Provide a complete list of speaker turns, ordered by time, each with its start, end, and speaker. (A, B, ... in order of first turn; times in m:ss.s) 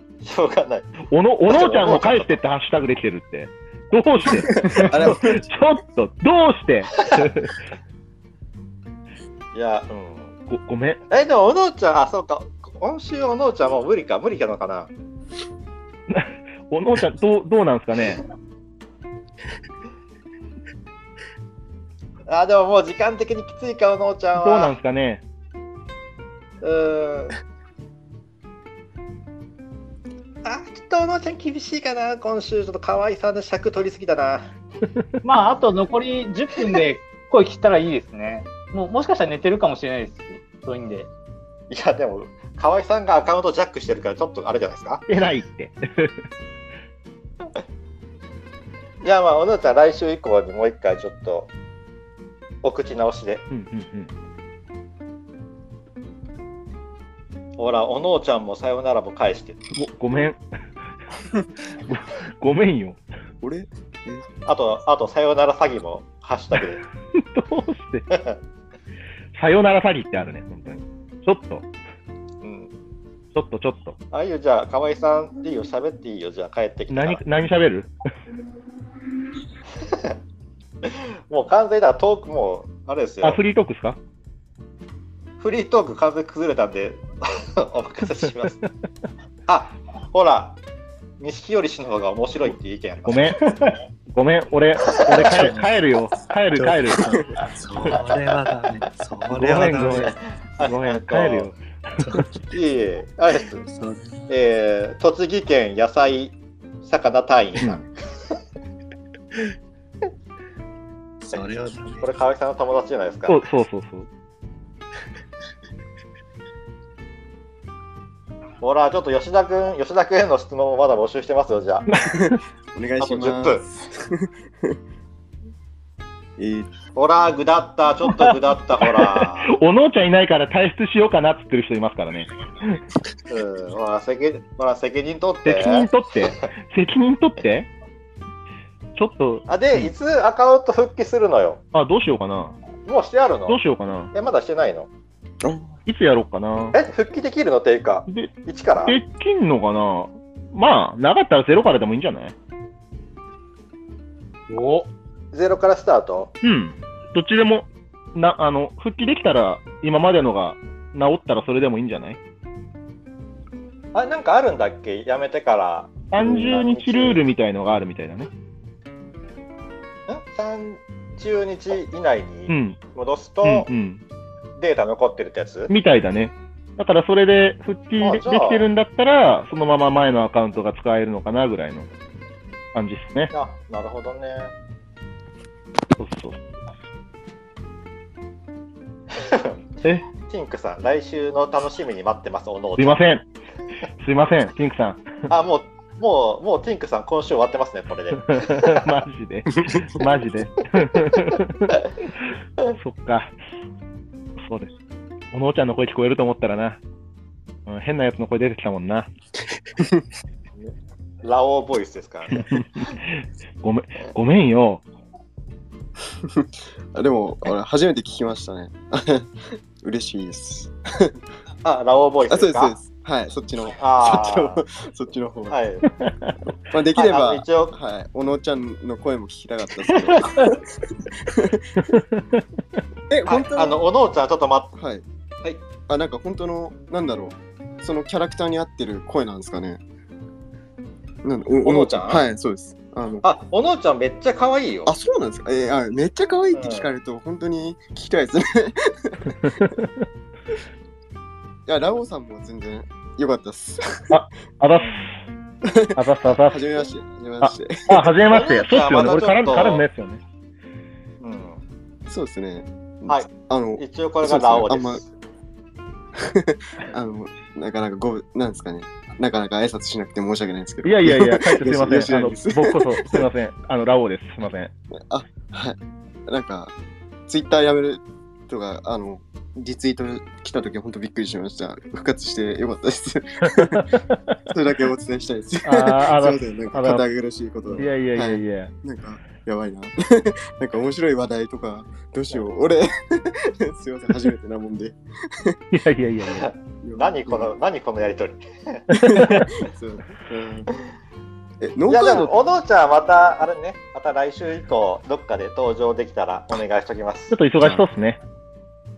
0:00.2-0:00.9 A
0:01.1-0:07.6 B
0:01.5-0:02.4 A
0:04.6-0:05.4 C
0:09.5-0:10.3 A
0:10.5-0:11.0 B
0:11.1-0:14.9 A
0:16.1-0:18.2 B
0:22.3-0:24.8 A
0:24.4-0:25.2 B
0:26.6-0:27.4 A
0:30.4-0:34.5 A
0:35.2-0:41.1 D
0:41.7-0:45.0 A
0:45.1-0:46.1 B
0:49.0-0:51.5 A
0:52.6-0:53.5 A
0:53.5-0:54.1 B
0:57.6-0:59.6 A
0:59.8-1:00.4 B
1:01.8-1:03.0 B
1:03.4-1:04.3 C
1:04.5-1:06.8 A
1:07.1-1:08.1 B
1:08.1-1:08.4 A
1:09.4-1:11.7 B
1:12.4-1:12.7 A
1:13.3-1:14.0 B
1:14.1-1:17.2 A
1:16.9-1:17.9 B
1:19.9-1:20.1 A
1:20.8-1:23.4 A
1:23.2-1:24.0 B
1:25.4-1:28.6 A
1:29.5-1:30.6 A
1:31.2-1:33.2 A
1:33.1-1:33.4 B
1:34.1-1:37.4 B
1:36.6-1:40.1 E
1:39.3-1:41.6 B
1:39.9-1:41.5 A
1:42.0-1:42.3 E
1:42.5-1:43.6 A
1:43.7-1:44.3 E
1:44.3-1:47.8 A
1:47.6-1:47.8 B
1:51.2-1:52.1 E
1:52.0-1:53.4 A
1:53.3-1:54.1 B
1:58.6-2:01.9 A
2:01.9-2:02.4 B
2:02.1-2:04.8 C
2:03.0-2:03.6 A
2:06.4-2:06.7 C
2:06.9-2:09.5 A
2:08.8-2:12.8 B
2:13.3-2:15.9 A
2:15.4-2:17.7 B
2:19.0-2:19.9 B
2:19.5-2:21.6 A
2:21.7-2:22.6 B
2:22.8-2:24.9 A
2:23.5-2:24.1 B
2:25.4-2:25.7 C
2:25.9-2:26.8 B
2:26.7-2:29.0 A
2:28.8-2:32.4 B
2:34.5-2:34.9 D
2:35.3-2:36.3 A
2:36.4-2:42.2 B
2:43.9-2:47.2 A
2:46.1-2:48.3 B
2:50.1-2:53.7 A
2:52.5-2:52.8 B
2:53.4-2:54.0 B
2:54.6-2:55.7 A
2:55.7-3:01.9 B
2:58.0-2:58.7 A
3:02.7-3:03.3 B
3:03.3-3:04.5 A
3:06.0-3:06.4 B
3:09.2-3:09.6 A
3:10.2-3:13.0 A
3:12.8-3:13.2 B
3:14.0-3:15.1 B
3:15.3-3:18.9 A
3:18.3-3:21.8 B
3:22.7-3:23.3 B
3:24.4-3:24.7 B
3:25.3-3:26.8 B
3:27.7-3:29.1 B
3:30.6-3:32.5 A
3:32.3-3:34.8 B
3:36.3-3:41.2 C
3:41.6-3:42.8 A
3:42.3-3:45.6 C
3:43.7-3:44.6 A
3:45.5-3:45.9 A
3:45.9-3:46.4 B
3:46.7-3:50.6 C
3:46.9-3:47.7 A
3:51.3-3:51.9 C
3:51.8-3:52.4 B
3:53.1-3:53.8 C
3:53.3-3:54.7 A
3:54.8-3:55.0 C
3:55.9-3:59.8 C
4:01.2-4:03.2 C
4:01.6-4:02.3 A
4:03.2-4:04.9 A
4:04.8-4:09.4 C
4:06.5-4:06.9 A
4:09.4-4:10.0 B
4:11.7-4:14.2 C
4:14.1-4:15.0 B
4:15.6-4:18.1 C
4:16.0-4:16.8 B
4:17.4-4:20.2 B
4:18.3-4:19.9 A
4:21.2-4:21.6 A
4:22.1-4:25.0 C
4:23.1-4:25.0 A
4:26.2-4:33.2 C
4:30.8-4:34.7 B
4:35.0-4:36.7 C
4:37.3-4:43.9 C
4:43.5-4:44.4 B
4:44.5-4:55.6 C
4:45.6-4:47.1 B
4:47.7-4:48.7 B
4:55.7-4:56.5 B
4:56.4-4:58.4 A
4:56.8-4:57.5 C
4:58.9-4:59.5 B
4:59.0-5:00.8 C
5:01.6-5:02.4 C
5:01.9-5:07.4 A
5:07.3-5:08.2 B
5:07.6-5:07.8 C